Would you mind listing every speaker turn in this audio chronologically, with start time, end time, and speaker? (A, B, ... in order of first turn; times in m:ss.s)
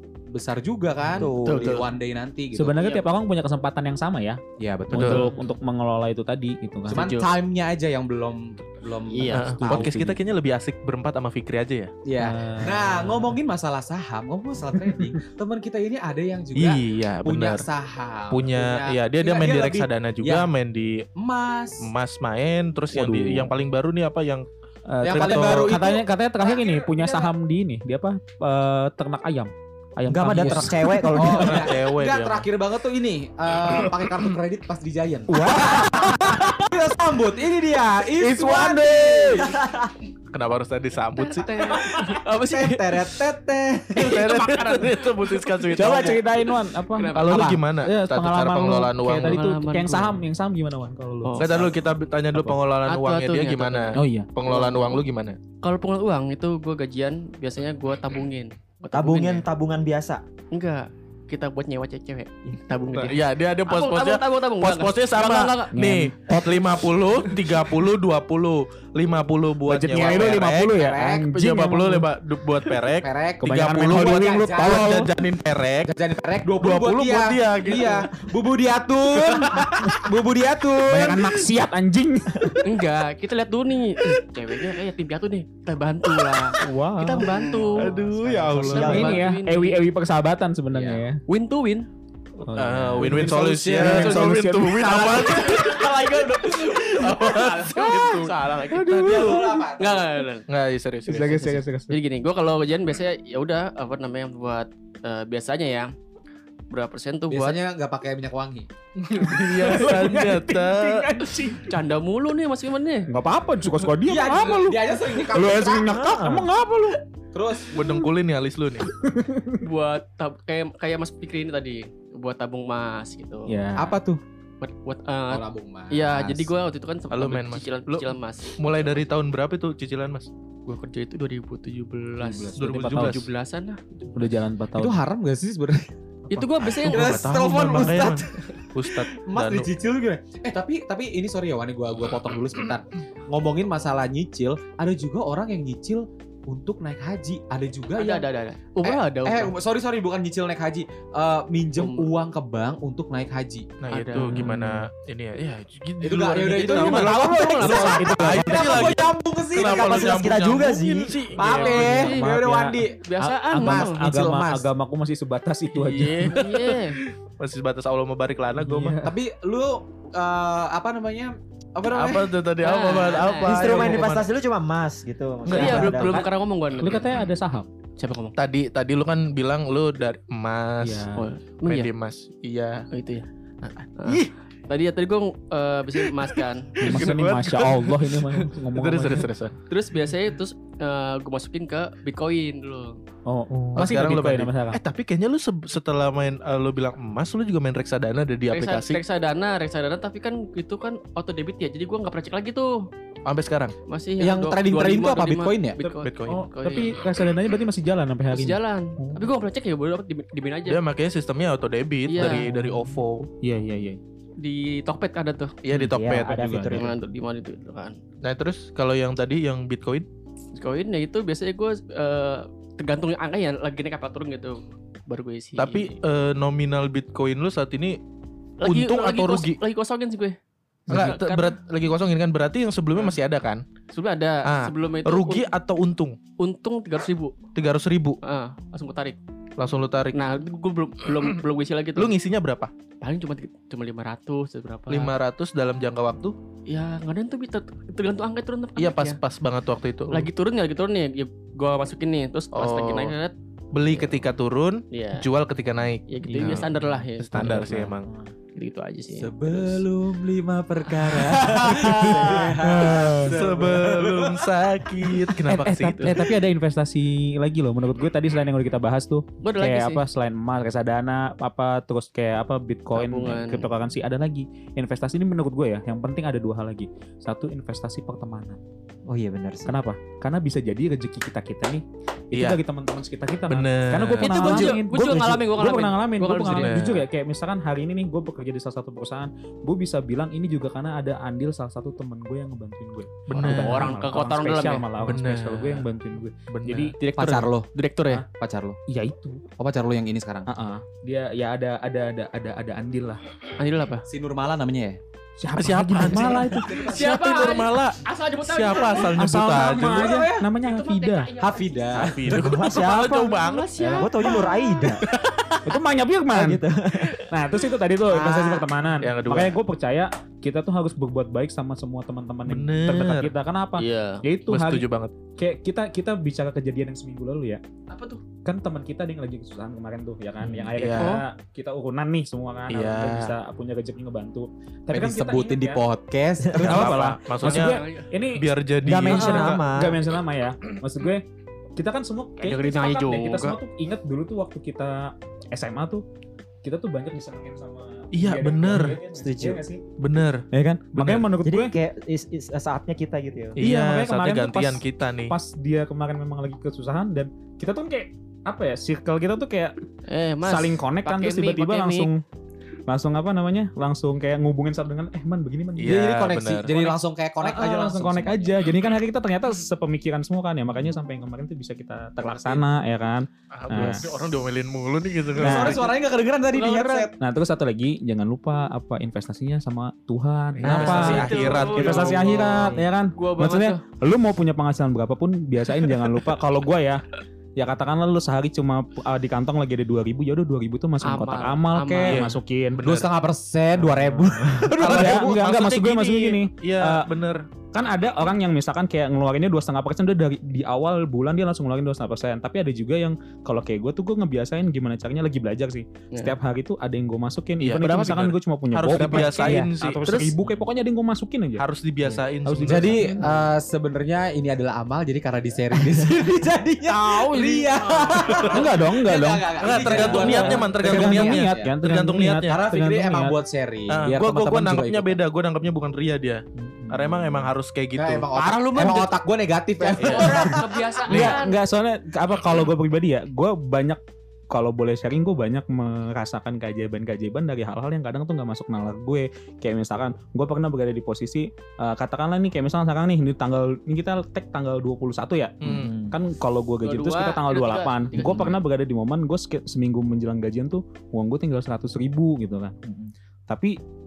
0:00.3-0:02.9 A
0:01.1-0:01.8 B
0:01.2-0:01.9 C
0:02.5-0:07.1 D
0:02.8-0:03.0 E
0:04.6-0:05.4 A
0:04.9-0:05.3 C
0:06.9-0:10.0 A
0:06.9-0:07.2 E
0:09.1-0:09.6 E
0:09.3-0:11.9 C
0:09.6-0:10.2 D
0:12.0-0:20.5 A
0:12.2-0:13.4 D
0:14.8-0:15.2 D
0:16.5-0:17.6 C
0:18.3-0:21.0 C
0:21.2-0:21.9 A
0:21.8-0:24.4 C
0:22.9-0:23.5 D
0:24.9-0:31.6 D
0:25.0-0:27.3 A
0:25.1-0:25.8 C
0:30.1-0:31.7 B
0:30.3-0:39.5 A
0:31.4-0:32.4 C
0:33.7-0:33.9 C
0:35.3-0:36.7 D
0:38.2-0:39.5 D
0:38.5-0:39.2 C
0:39.5-0:39.9 B
0:40.3-0:41.8 C
0:41.2-0:43.1 E
0:41.8-0:44.5 A
0:44.0-0:46.2 C
0:44.1-0:46.0 E
0:45.7-0:51.4 D
0:46.9-0:47.6 E
0:47.1-0:49.4 C
0:49.2-0:50.2 E
0:51.2-0:51.7 E
0:51.4-0:55.4 C
0:52.8-0:55.0 E
0:53.9-0:54.3 D
0:55.6-0:59.4 E
0:58.9-1:00.2 B
1:00.5-1:05.8 E
1:02.9-1:10.7 C
1:05.7-1:06.6 D
1:09.6-1:12.1 D
1:09.9-1:11.3 A
1:11.3-1:15.9 C
1:12.9-1:15.0 A
1:13.4-1:15.1 D
1:15.9-1:21.4 A
1:16.6-1:18.1 C
1:19.2-1:19.9 C
1:19.8-1:20.1 D
1:20.8-1:22.8 D
1:22.6-1:29.8 E
1:26.6-1:31.2 D
1:27.6-1:29.2 C
1:28.6-1:29.2 B
1:30.8-1:31.9 E
1:32.4-1:35.4 D
1:32.6-1:39.6 C
1:33.0-1:34.3 A
1:35.0-1:35.6 A
1:35.4-1:40.4 E
1:37.9-1:38.1 A
1:38.8-1:40.1 A
1:40.5-1:41.5 C
1:41.1-1:42.0 D
1:41.3-1:45.9 E
1:46.7-1:47.6 E
1:47.3-1:48.7 A
1:49.0-1:51.1 C
1:49.2-1:51.7 D
1:51.6-1:53.1 E
1:53.1-1:57.0 D
1:54.0-1:56.0 A
1:55.8-1:56.5 B
1:57.3-1:57.7 A
1:57.7-1:58.9 C
1:58.9-1:59.6 D
1:59.6-2:03.6 E
2:03.4-2:04.0 D
2:03.8-2:04.2 A
2:04.6-2:08.6 E
2:05.3-2:06.5 A
2:07.1-2:10.3 C
2:10.6-2:14.1 E
2:12.2-2:13.2 D
2:12.6-2:13.2 C
2:14.1-2:15.0 D
2:14.8-2:15.9 A
2:16.3-2:17.3 E
2:16.6-2:19.7 C
2:16.8-2:28.2 A
2:27.9-2:29.5 E
2:28.8-2:33.7 A
2:31.8-2:32.1 E
2:33.8-2:42.0 C
2:33.9-2:34.5 E
2:34.2-2:34.8 D
2:36.0-2:40.3 A
2:36.4-2:38.3 E
2:36.9-2:39.0 D
2:39.6-2:41.2 B
2:41.4-2:43.0 A
2:41.4-2:46.8 D
2:41.5-2:42.3 E
2:42.9-2:44.0 E
2:43.6-2:44.7 A
2:45.8-2:47.0 E
2:47.4-2:49.0 C
2:48.6-2:49.1 D
2:49.0-2:52.4 A
2:51.8-2:54.3 C
2:52.6-2:53.9 E
2:53.4-2:56.2 B
2:55.5-2:57.2 E
2:55.5-2:57.7 D
2:58.0-2:58.3 E
2:58.4-3:01.0 C
3:00.8-3:01.3 D
3:01.1-3:01.9 E
3:01.6-3:02.9 C
3:02.9-3:03.2 E
3:03.6-3:04.3 C
3:04.0-3:07.1 E
3:06.0-3:09.5 C
3:06.8-3:09.3 D
3:09.7-3:13.0 E
3:13.3-3:14.8 D
3:13.8-3:19.0 C
3:18.5-3:22.8 E
3:23.2-3:23.7 C
3:23.9-3:27.0 E
3:24.2-3:25.8 A
3:25.8-3:29.3 D
3:26.0-3:26.4 C
3:28.3-3:30.8 E
3:30.6-3:33.3 C
3:32.1-3:32.5 E
3:32.2-3:34.0 D
3:34.4-3:35.6 E
3:35.6-3:36.5 C
3:35.7-3:36.9 B
3:35.9-3:36.9 D
3:36.7-3:38.0 E
3:38.2-3:40.0 C
3:40.6-3:45.9 E
3:45.6-3:48.0 C
3:48.6-3:50.4 E
3:48.6-3:49.6 C
3:50.9-3:51.2 D
3:50.9-3:51.6 E
3:50.9-3:53.6 C
3:53.9-3:55.5 E
3:54.4-3:56.2 C
3:56.4-3:57.4 E
3:57.5-3:58.2 C
3:58.2-3:59.2 E
3:59.6-4:00.1 C
4:00.1-4:02.1 E
4:02.0-4:02.7 C
4:03.0-4:05.1 E
4:04.9-4:06.4 C
4:06.7-4:09.2 E
4:08.8-4:10.3 C
4:10.1-4:13.3 E
4:12.5-4:13.1 C
4:13.7-4:18.1 C
4:13.9-4:14.2 E
4:14.9-4:15.3 E
4:16.1-4:17.9 E
4:16.2-4:17.7 D
4:18.6-4:19.8 E
4:19.1-4:24.5 A
4:21.2-4:26.2 C
4:21.5-4:23.3 D
4:21.9-4:22.6 E
4:25.4-4:38.6 D
4:29.4-4:30.0 E
4:32.9-4:33.7 E
4:39.1-4:39.7 B
4:39.6-4:57.0 D
4:42.3-4:42.6 C
4:43.5-4:44.8 C
4:44.2-4:46.9 E
4:46.5-4:47.0 C
4:53.3-4:54.0 C
4:53.3-4:55.0 E
4:55.0-4:55.9 C
4:56.5-4:57.0 C
4:57.0-4:58.2 E
4:57.1-4:57.7 A
4:58.3-4:58.8 A
4:58.9-4:59.4 D
4:59.6-5:00.5 A
5:00.5-5:03.2 D
5:03.6-5:04.0 E
5:04.0-5:05.0 A
5:05.4-5:07.0 D
5:05.6-5:10.0 C
5:06.6-5:07.0 A
5:06.7-5:09.2 E
5:09.1-5:11.3 D
5:09.6-5:10.5 A
5:10.5-5:12.0 E
5:11.4-5:12.4 A
5:12.0-5:13.8 C
5:12.2-5:15.0 B
5:13.2-5:15.5 E
5:15.6-5:16.6 D
5:16.3-5:17.2 B
5:17.3-5:27.6 D
5:18.1-5:18.6 A
5:19.0-5:19.6 C
5:22.5-5:23.3 C
5:23.8-5:24.2 E
5:24.5-5:25.1 C
5:27.9-5:28.2 E
5:28.4-5:35.8 D
5:30.4-5:30.7 B
5:30.8-5:31.2 C
5:31.0-5:31.2 E
5:32.7-5:33.3 C
5:34.9-5:36.9 A
5:36.5-5:38.4 D
5:36.6-5:37.8 C
5:37.4-5:38.1 E
5:38.3-5:39.6 C
5:38.8-5:40.0 B
5:39.0-5:41.2 D
5:41.8-5:46.0 D
5:42.4-5:43.6 E
5:46.6-5:49.8 D
5:48.1-5:49.0 C
5:49.2-5:49.6 B
5:50.0-5:51.3 C
5:50.5-5:51.7 D
5:51.4-5:53.6 B
5:53.6-5:55.3 C
5:53.6-5:59.7 D
6:00.1-6:02.1 E
6:00.4-6:02.2 D
6:02.9-6:06.0 D
6:05.8-6:06.7 C
6:05.8-6:08.6 A
6:06.7-6:14.1 D
6:12.2-6:12.6 A
6:13.5-6:15.8 C
6:15.4-6:17.1 A
6:15.4-6:15.8 D
6:16.5-6:17.1 E
6:17.2-6:27.0 D
6:20.6-6:22.7 C
6:20.6-6:21.4 B
6:20.7-6:23.8 E
6:27.6-6:32.9 D
6:31.0-6:32.3 E
6:32.0-6:33.1 C
6:32.8-6:35.3 A
6:33.8-6:34.7 B
6:34.6-6:37.1 D
6:34.8-6:37.4 C
6:37.7-6:51.6 D
6:47.6-6:50.3 C
6:51.6-6:53.1 C
6:52.4-6:53.3 D
6:52.6-7:01.7 A
6:56.8-6:58.7 E
6:58.4-7:03.4 D
6:59.6-7:02.6 C
7:02.5-7:05.2 A
7:03.9-7:08.3 C
7:06.6-7:07.4 B
7:08.0-7:10.8 A
7:08.3-7:09.2 E
7:09.8-7:11.6 E
7:10.0-7:10.5 C
7:10.2-7:14.0 D
7:11.1-7:11.4 C
7:14.5-7:32.7 D
7:25.6-7:25.9 C
7:25.6-7:26.2 B
7:26.8-7:28.6 E
7:32.8-7:33.1 B
7:33.5-7:33.7 D